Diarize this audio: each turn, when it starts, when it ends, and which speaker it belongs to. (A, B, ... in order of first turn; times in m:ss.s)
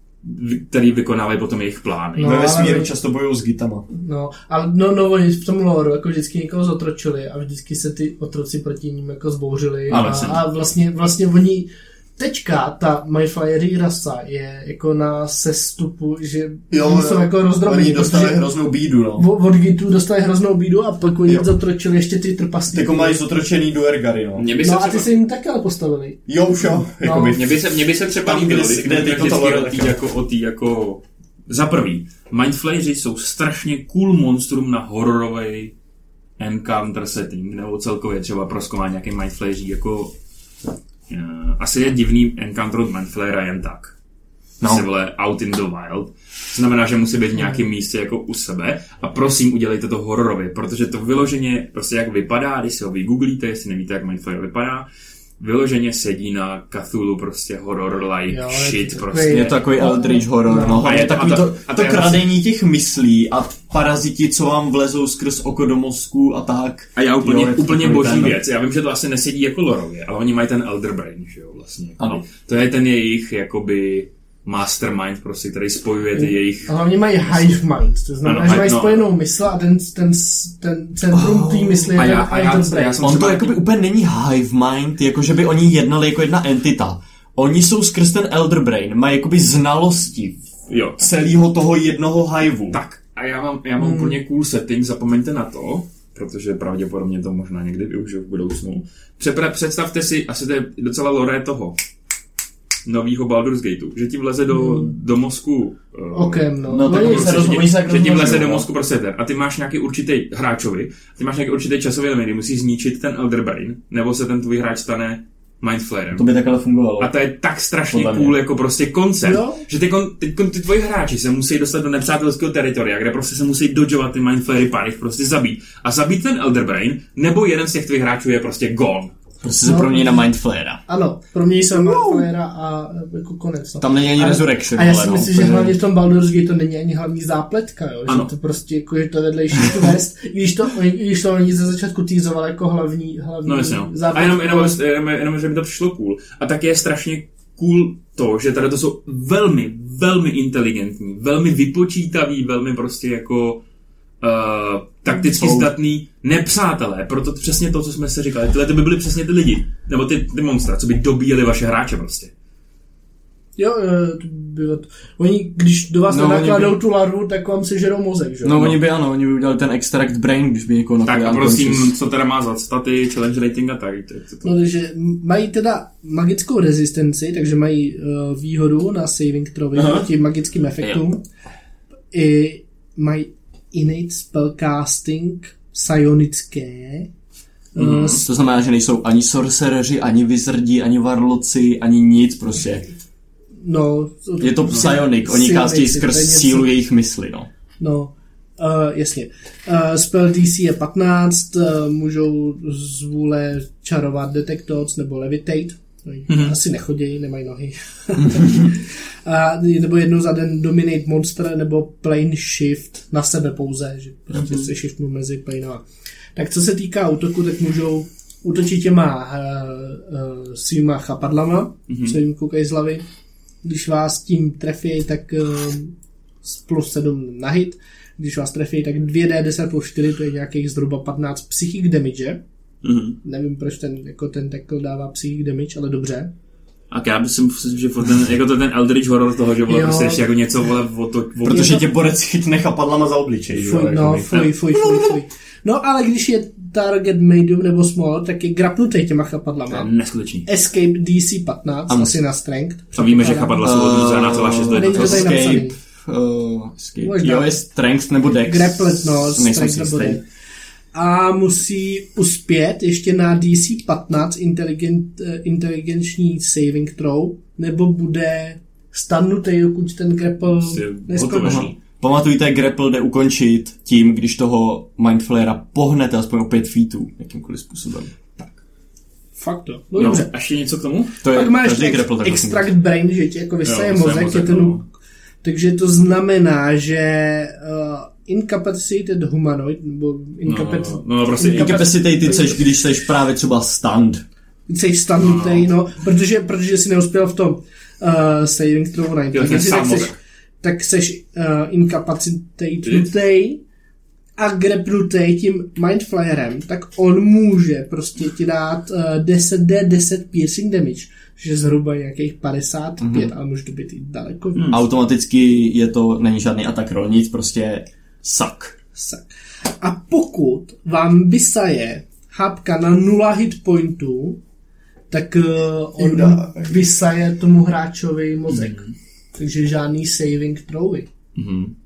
0:00.2-0:02.4 A
0:02.2-0:02.9 B
0:02.2-0:03.8 C
0:03.9-0:18.5 B
0:09.9-0:10.4 A
0:09.9-0:10.3 C
0:16.7-0:19.3 C
0:19.2-0:23.2 B
0:22.7-0:24.5 C
0:24.4-0:25.1 A
0:24.6-0:26.2 B
0:26.3-0:27.6 C
0:26.8-0:27.4 B
0:27.3-0:35.7 A
0:28.2-0:30.0 C
0:36.4-0:40.1 A
0:41.1-0:43.9 A
0:44.6-0:44.8 C
0:44.6-0:54.9 A
0:55.4-0:59.6 A
0:58.3-1:00.9 B
0:59.3-1:08.4 C
1:00.8-1:02.2 A
1:07.0-1:16.7 A
1:16.1-1:23.0 B
1:17.2-1:17.6 A
1:18.2-1:19.1 A
1:21.1-1:22.0 C
1:21.9-1:23.6 A
1:23.0-1:30.4 C
1:30.7-1:31.2 A
1:31.0-1:32.8 C
1:32.7-1:41.8 A
1:33.8-1:34.2 B
1:42.8-1:56.3 A
1:44.5-1:44.9 B
1:46.1-1:47.6 B
1:46.6-1:48.7 C
1:56.1-1:57.1 C
1:57.0-2:09.1 A
1:57.9-1:58.3 C
1:59.2-1:59.6 B
2:09.4-2:10.8 C
2:09.6-2:10.3 B
2:10.9-2:24.8 B
2:11.7-2:12.3 C
2:13.8-2:15.8 C
2:23.4-2:33.6 A
2:34.2-2:42.3 A
2:35.1-2:35.7 C
2:43.6-2:48.8 B
2:46.1-2:46.8 C
2:48.4-2:51.9 C
2:51.0-2:54.5 A
2:54.4-3:01.2 B
2:59.7-3:00.1 A
3:02.1-3:07.1 B
3:07.8-3:08.2 A
3:07.8-3:12.9 C
3:07.8-3:08.2 B
3:13.6-3:16.7 B
3:14.4-3:17.5 C
3:17.8-3:35.8 B
3:26.3-3:26.6 A
3:34.3-3:34.7 C
3:36.3-3:43.0 B
3:41.9-3:42.2 A
3:43.6-3:45.9 B
3:46.4-3:52.4 B
3:52.8-3:53.2 A
3:53.2-3:56.3 B
3:56.9-4:01.8 A
3:59.7-4:00.2 B
4:01.4-4:05.2 C
4:03.6-4:09.9 B
4:09.7-4:10.5 A
4:10.4-4:13.7 B
4:11.9-4:12.2 C
4:13.0-4:15.4 A
4:13.6-4:20.2 C
4:14.7-4:15.8 B
4:17.0-4:17.6 B
4:18.3-4:20.2 B
4:20.9-4:31.7 B
4:30.6-4:31.8 A
4:31.4-4:38.4 C
4:39.4-4:40.3 B
4:40.0-4:41.2 A
4:41.2-4:42.7 C
4:41.3-4:44.8 B
4:43.6-4:44.8 A
4:45.4-4:52.6 B
4:50.4-4:52.0 A
4:51.5-4:54.2 C
4:54.7-5:03.6 B
4:55.2-4:55.7 A
4:59.3-5:00.2 A
5:02.8-5:03.1 A
5:04.4-5:14.7 B
5:13.0-5:13.3 C
5:14.5-5:14.8 A
5:14.7-5:18.7 C
5:19.0-5:24.4 B
5:25.1-5:31.1 B
5:26.0-5:26.8 C
5:28.5-5:28.9 A
5:31.3-5:31.7 A